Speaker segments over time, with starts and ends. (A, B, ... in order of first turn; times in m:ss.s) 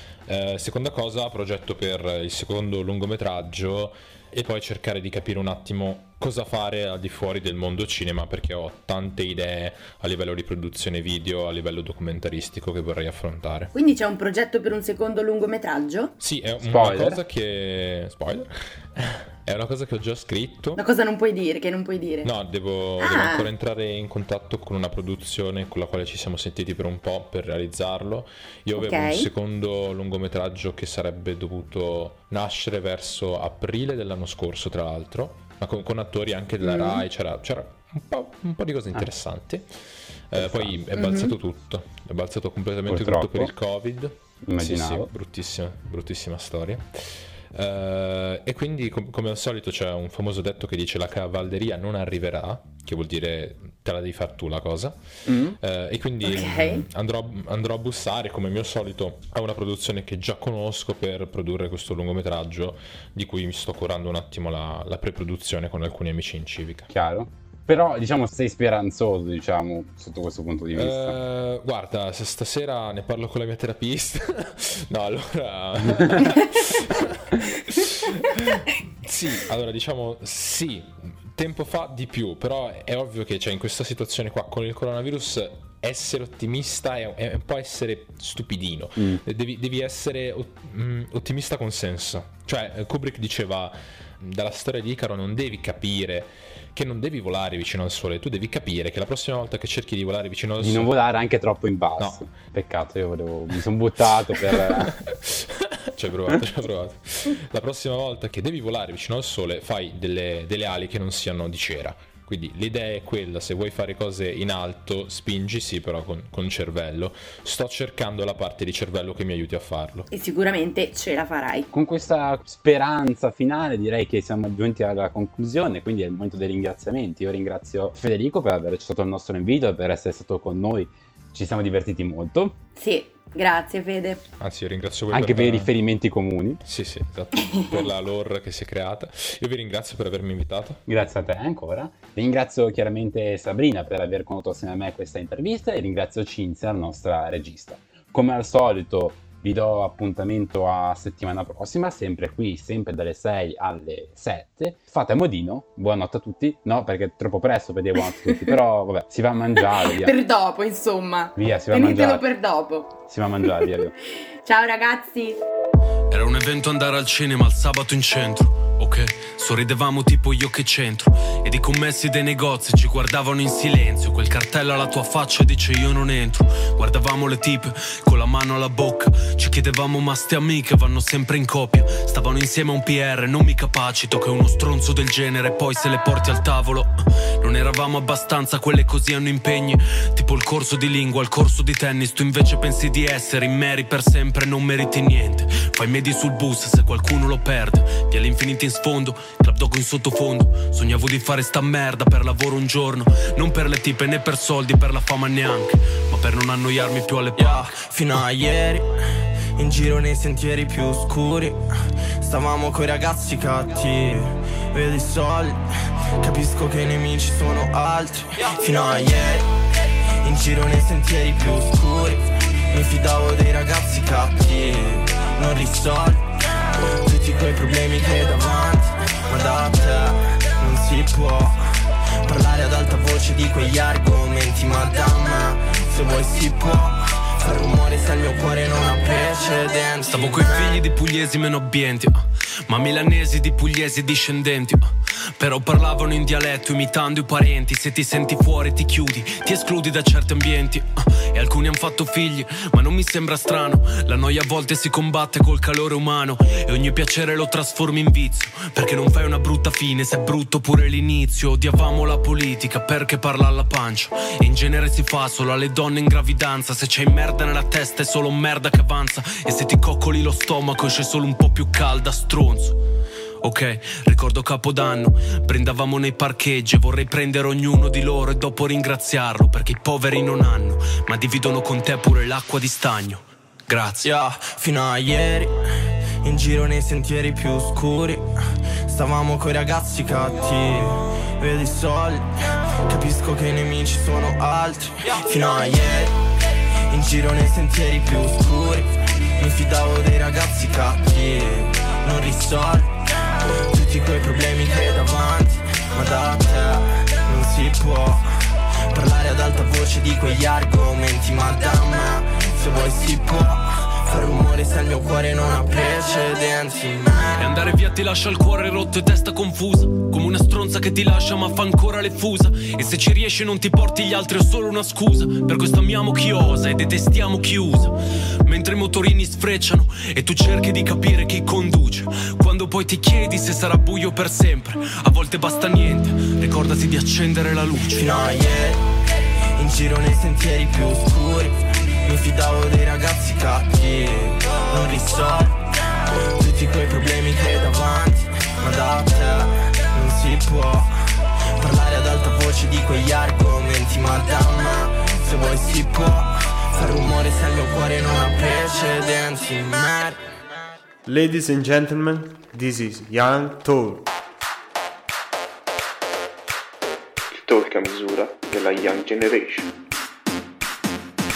0:00.2-0:13.7 A
0:13.7-0:16.1 B
0:16.2-0:20.8 A
0:16.6-0:17.2 C
0:20.8-0:22.3 B
0:22.2-1:06.9 A
0:23.0-0:23.5 B
0:28.8-0:29.3 B
0:36.6-0:37.0 B
0:40.3-0:40.8 C
0:41.0-0:41.3 B
0:42.9-0:43.5 C
0:44.4-0:45.1 C
0:55.3-0:55.6 C
0:56.2-0:56.8 B
1:06.9-1:11.2 C
1:10.7-1:40.9 A
1:29.0-1:29.2 C
1:40.6-1:44.9 C
1:42.0-1:42.2 A
1:44.5-2:00.1 A
2:00.1-2:01.7 B
2:01.7-2:12.5 C
2:12.8-2:14.2 B
2:14.4-2:15.7 A
2:15.1-2:16.6 C
2:16.6-2:20.8 A
2:20.9-2:40.2 C
2:38.0-2:38.5 B
2:39.8-2:43.0 B
2:41.4-2:42.2 C
2:43.1-2:43.9 C
2:43.5-2:43.7 B
2:44.4-2:45.4 B
2:46.1-3:27.8 D
3:27.4-3:28.9 E
3:29.6-3:31.6 E
3:32.2-3:35.6 E
3:36.2-3:39.5 E
3:40.2-3:51.6 E
3:52.2-4:00.8 E
4:00.1-4:32.8 D
4:33.4-4:44.0 D
4:44.0-4:45.6 E
4:46.2-4:48.3 E
4:48.9-4:56.2 E
4:56.9-5:03.0 E
5:03.7-5:08.4 E
5:08.9-5:17.4 E
5:17.4-5:38.1 D
5:37.9-5:38.8 E
5:39.6-5:45.6 E
5:46.3-5:51.0 E
5:51.6-6:00.2 E
6:01.0-6:04.1 F
6:07.3-6:09.7 G